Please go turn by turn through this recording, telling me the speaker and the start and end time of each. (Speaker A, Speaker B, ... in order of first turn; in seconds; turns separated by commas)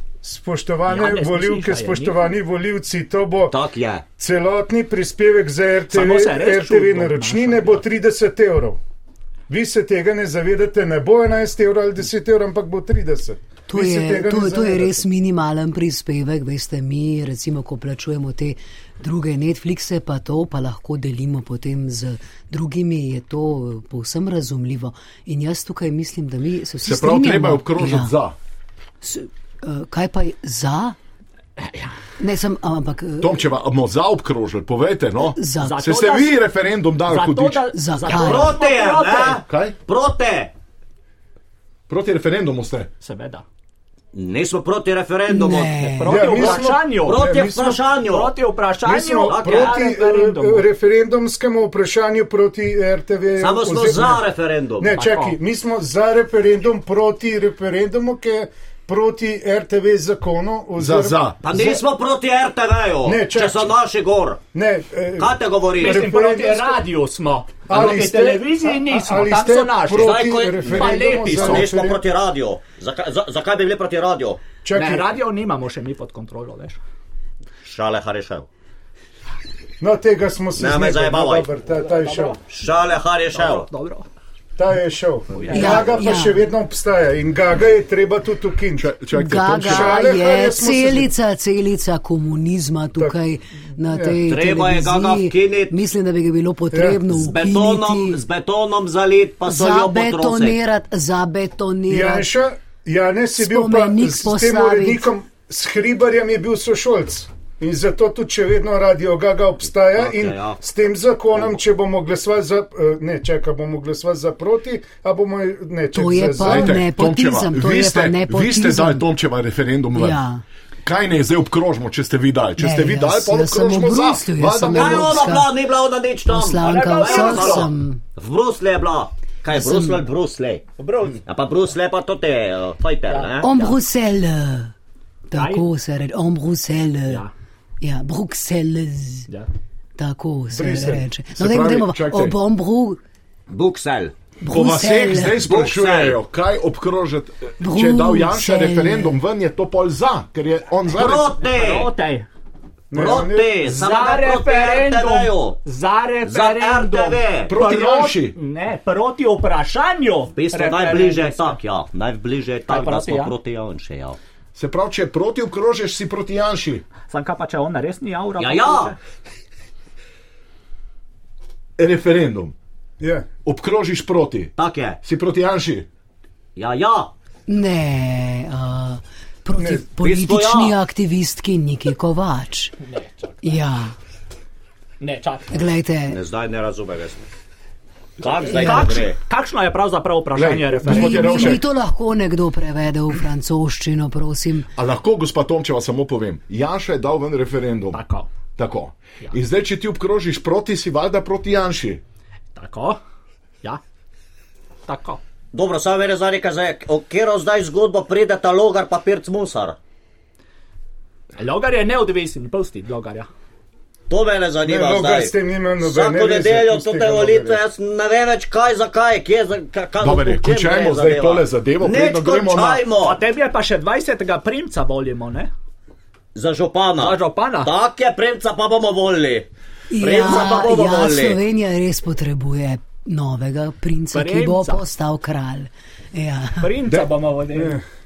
Speaker A: 0.2-3.5, Speaker B: 0.9-2.2, Speaker C: 3.5-4.0, Speaker A: 4.2-8.8, Speaker B: 5.9-7.9, Speaker A: 9.5-15.0, Speaker D: 13.7-28.2, Speaker E: 26.8-28.4, Speaker D: 29.0-31.0, Speaker B: 31.6-31.9, Speaker D: 32.2-33.5, Speaker E: 33.2-37.7, Speaker D: 35.4-36.0, Speaker B: 35.6-36.4, Speaker B: 37.0-39.4, Speaker D: 37.7-38.6, Speaker C: 38.1-40.5, Speaker E: 39.5-39.8, Speaker E: 41.9-42.9, Speaker B: 43.0-43.5, Speaker C: 44.1-48.3, Speaker D: 45.3-46.3, Speaker B: 45.9-47.3, Speaker A: 46.1-47.8, Speaker B: 48.0-50.7, Speaker A: 48.9-54.2, Speaker C: 49.3-49.8, Speaker C: 53.4-55.0, Speaker A: 54.8-61.8, Speaker B: 54.9-55.4, Speaker E: 60.8-61.4, Speaker C: 61.4-64.4, Speaker A: 63.0-63.7, Speaker A: 64.5-66.8, Speaker C: 65.2-66.1, Speaker B: 65.8-71.7, Speaker A: 67.7-72.0, Speaker C: 70.0-74.4, Speaker A: 74.6-75.1, Speaker B: 74.7-76.8, Speaker C: 77.6-78.5, Speaker A: 79.8-82.4, Speaker C: 80.6-81.5, Speaker B: 81.7-82.7, Speaker C: 82.5-83.7, Speaker B: 83.3-84.1, Speaker A: 84.6-88.9, Speaker B: 85.3-86.2, Speaker D: 85.5-86.4, Speaker E: 88.8-90.0, Speaker D: 89.1-98.2, Speaker A: 89.6-91.1, Speaker A: 93.9-94.2, Speaker C: 94.2-95.8, Speaker A: 96.7-97.0, Speaker C: 97.1-100.6, Speaker D: 99.5-102.3, Speaker A: 101.9-116.8, Speaker D: 103.4-105.1, Speaker C: 109.9-110.6, Speaker D: 115.9-119.1, Speaker E: 116.4-120.2, Speaker D: 120.0-120.4, Speaker E: 120.8-125.3, Speaker D: 122.6-125.5, Speaker C: 124.7-130.7, Speaker D: 126.3-128.0, Speaker B: 126.6-127.7, Speaker D: 129.5-130.0, Speaker B: 130.8-131.2, Speaker C: 131.3-133.5, Speaker B: 133.1-133.8, Speaker D: 133.4-134.7, Speaker D: 135.3-137.3, Speaker B: 135.3-135.7, Speaker B: 137.1-137.3, Speaker D: 137.8-139.3, Speaker D: 140.0-143.0, Speaker A: 140.5-141.1, Speaker E: 141.3-142.4, Speaker C: 143.5-144.1, Speaker D: 144.4-145.4, Speaker E: 144.5-151.3, Speaker C: 145.3-146.2, Speaker D: 147.6-149.2, Speaker C: 150.9-151.9, Speaker B: 151.4-152.3, Speaker A: 152.9-153.6, Speaker C: 152.9-155.6, Speaker B: 153.6-161.6, Speaker C: 156.2-157.6, Speaker E: 157.5-158.4, Speaker C: 160.3-164.2, Speaker B: 162.7-163.4, Speaker E: 164.6-166.8, Speaker B: 167.1-169.0, Speaker C: 168.4-168.9, Speaker E: 171.8-172.5, Speaker A: 173.0-173.3, Speaker E: 173.4-175.9, Speaker C: 174.6-175.0, Speaker C: 176.6-177.1, Speaker D: 177.5-182.8, Speaker A: 179.6-179.8, Speaker C: 180.0-180.8, Speaker B: 182.8-183.5, Speaker D: 183.4-183.9, Speaker B: 185.0-185.6, Speaker D: 185.5-186.2, Speaker C: 186.1-187.3, Speaker C: 188.2-189.2, Speaker B: 188.4-191.6, Speaker D: 188.6-188.9, Speaker E: 190.3-191.6, Speaker D: 190.8-194.7, Speaker E: 194.8-198.0, Speaker B: 197.9-198.3, Speaker E: 198.6-202.0, Speaker B: 202.6-203.0, Speaker B: 204.9-205.2, Speaker C: 205.5-209.8, Speaker B: 211.4-213.3, Speaker C: 214.1-223.2, Speaker A: 214.7-217.6, Speaker E: 220.0-222.8, Speaker B: 222.9-225.5, Speaker C: 226.3-231.4, Speaker B: 227.0-227.7, Speaker D: 229.9-236.7, Speaker B: 234.1-234.8, Speaker B: 236.6-237.8